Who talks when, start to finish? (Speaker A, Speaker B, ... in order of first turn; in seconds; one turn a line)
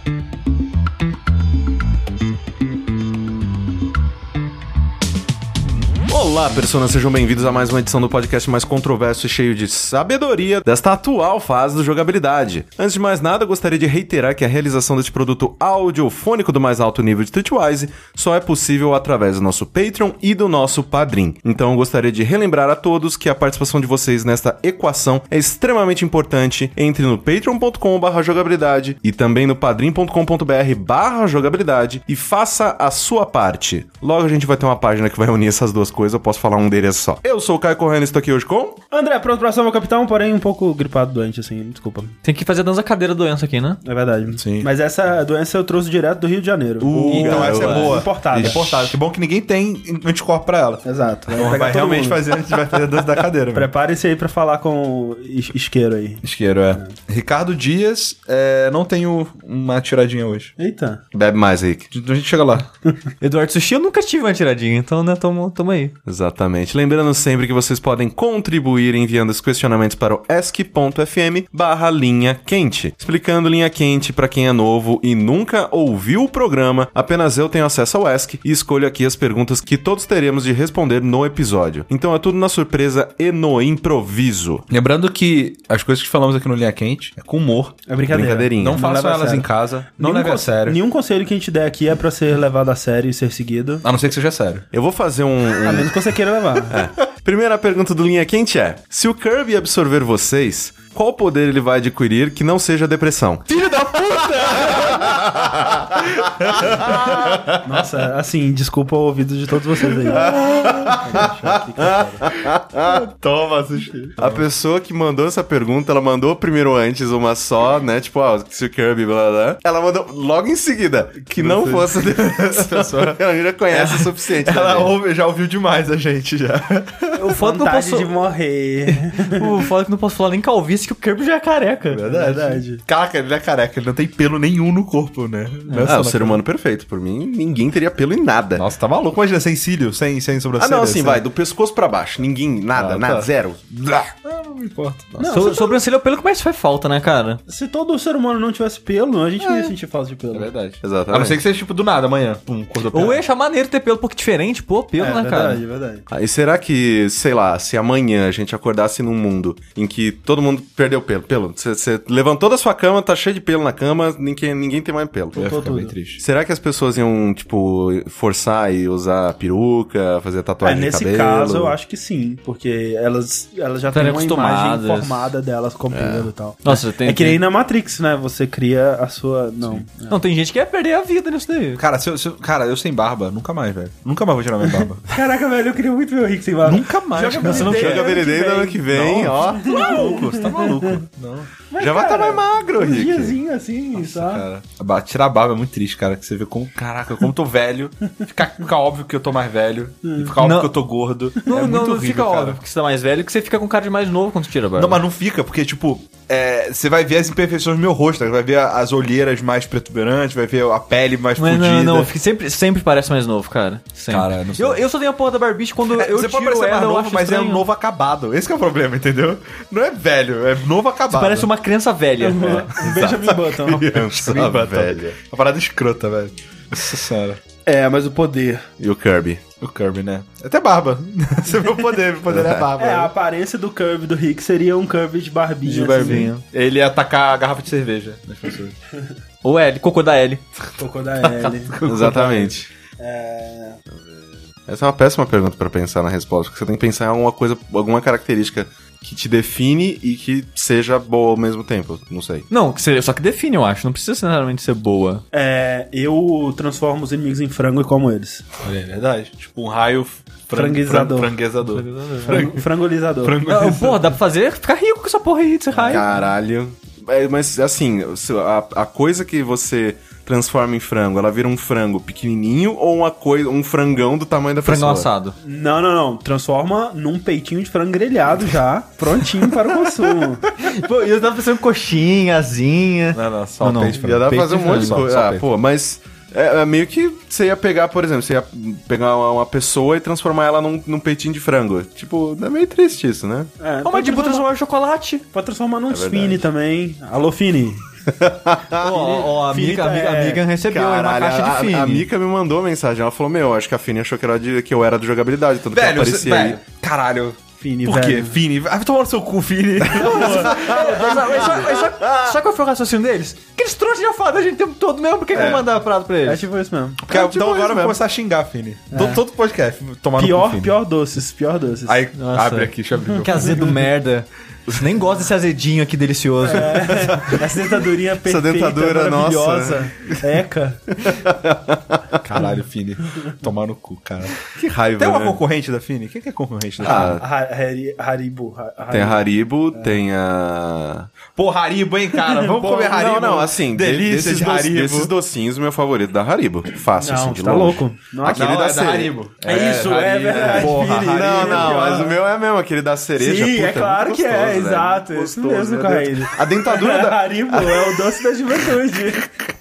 Speaker A: 6.1-38.8
Speaker B: 38.9-42.1
Speaker C: 42.2-43.8
Speaker B: 43.8-49.0
Speaker D: 44.4-44.7
Speaker D: 46.8-53.7
Speaker C: 46.9-48.0
Speaker A: 47.1-48.5
Speaker B: 50.8-52.4
Speaker B: 53.5-56.9
Speaker D: 56.2-60.5
Speaker B: 60.6-61.0
Speaker A: 61.1-61.9
Speaker D: 61.9-62.7
Speaker C: 63.2-65.9
Speaker A: 66.1-84.7
Speaker D: 84.7-87.8
Speaker B: 87.9-93.8
Speaker A: 88.1-88.8
Speaker D: 88.6-90.8
Speaker D: 93.8-94.7
Speaker A: 94.7-96.0
Speaker B: 95.6-96.8
Speaker A: 96.7-103.5
Speaker D: 103.5-107.3
Speaker A: 104.3-107.6
Speaker B: 107.6-112.3
Speaker A: 110.1-125.0
Speaker D: 114.1-114.4
Speaker D: 121.3-123.2
Speaker D: 123.7-127.3
Speaker C: 127.2-128.1
Speaker B: 127.3-129.5
Speaker C: 129.0-132.1
Speaker D: 131.9-136.4
Speaker B: 132.1-132.8
Speaker A: 135.8-138.7
Speaker D: 138.6-141.2
Speaker A: 140.6-143.6
Speaker D: 142.7-145.1
Speaker B: 145.2-145.8
Speaker C: 145.3-147.4
Speaker B: 147.5-150.5
Speaker D: 149.4-149.7
Speaker D: 150.3-153.2
Speaker A: 150.8-151.4
Speaker C: 152.9-155.6
Speaker B: 155.0-156.1
Speaker A: 156.1-165.5
Speaker B: 165.3-165.9
Speaker D: 165.3-166.2
Speaker A: 166.2-171.8
Speaker B: 170.6-180.2
Speaker C: 173.9-175.3
Speaker A: 175.9-176.3
Speaker C: 176.7-177.4
Speaker C: 180.1-181.8
Speaker D: 181.8-185.1
Speaker B: 184.6-188.9
Speaker D: 186.6-188.1
Speaker C: 187.4-188.0
Speaker A: 187.6-189.9
Speaker D: 188.9-191.5
Speaker B: 189.4-190.9
Speaker B: 191.7-194.4
Speaker A: 191.8-193.4
Speaker D: 193.9-202.6
Speaker B: 200.0-200.3
Speaker C: 200.4-200.7
Speaker C: 201.3-205.0
Speaker D: 204.8-212.1
Speaker C: 211.4-217.7
Speaker D: 214.1-214.8
Speaker D: 215.9-221.5
Speaker C: 221.1-222.9
Speaker B: 222.2-223.9
Speaker D: 222.8-227.4
Speaker A: 223.8-225.2
Speaker B: 227.7-228.6
Speaker A: 228.8-229.4
Speaker D: 229.6-233.1
Speaker A: 232.3-232.7
Speaker B: 232.8-236.3
Speaker C: 235.7-236.4
Speaker D: 235.9-238.8
Speaker C: 239.4-240.4
Speaker B: 240.8-243.8
Speaker D: 241.2-242.2
Speaker A: 241.8-242.7
Speaker A: 243.9-252.5
Speaker C: 252.5-255.2
Speaker B: 255.3-258.4
Speaker D: 258.6-262.6
Speaker B: 260.5-261.3
Speaker C: 261.6-262.5
Speaker B: 262.2-263.4
Speaker D: 263.2-264.1
Speaker C: 263.5-266.0
Speaker B: 265.7-266.1
Speaker A: 265.9-275.1
Speaker C: 274.6-275.4
Speaker B: 275.4-280.5
Speaker C: 280.6-285.0
Speaker D: 283.1-285.4
Speaker A: 284.0-293.5
Speaker B: 293.6-294.5
Speaker C: 293.8-295.2
Speaker B: 295.3-297.8
Speaker A: 295.9-296.4
Speaker A: 298.1-298.9
Speaker C: 298.8-302.1
Speaker B: 298.8-300.4
Speaker A: 300.7-306.6
Speaker D: 305.7-312.0
Speaker B: 307.6-308.4
Speaker B: 309.9-311.3
Speaker C: 309.9-316.4
Speaker A: 312.1-312.3
Speaker D: 315.3-315.7
Speaker B: 316.2-317.0
Speaker D: 317.0-320.7
Speaker A: 317.1-318.0
Speaker B: 318.9-319.2
Speaker B: 320.2-322.0
Speaker D: 321.9-323.7
Speaker C: 322.1-327.3
Speaker B: 326.4-330.8
Speaker A: 328.2-330.2
Speaker A: 330.9-332.2
Speaker D: 332.2-334.4
Speaker A: 334.6-335.4
Speaker D: 335.0-337.2
Speaker A: 336.8-337.2
Speaker B: 336.8-339.2
Speaker A: 338.9-341.1
Speaker D: 341.4-345.1
Speaker B: 342.3-343.0
Speaker A: 342.8-358.1
Speaker B: 347.0-348.9
Speaker D: 348.2-352.1
Speaker B: 349.4-352.1
Speaker B: 353.2-359.4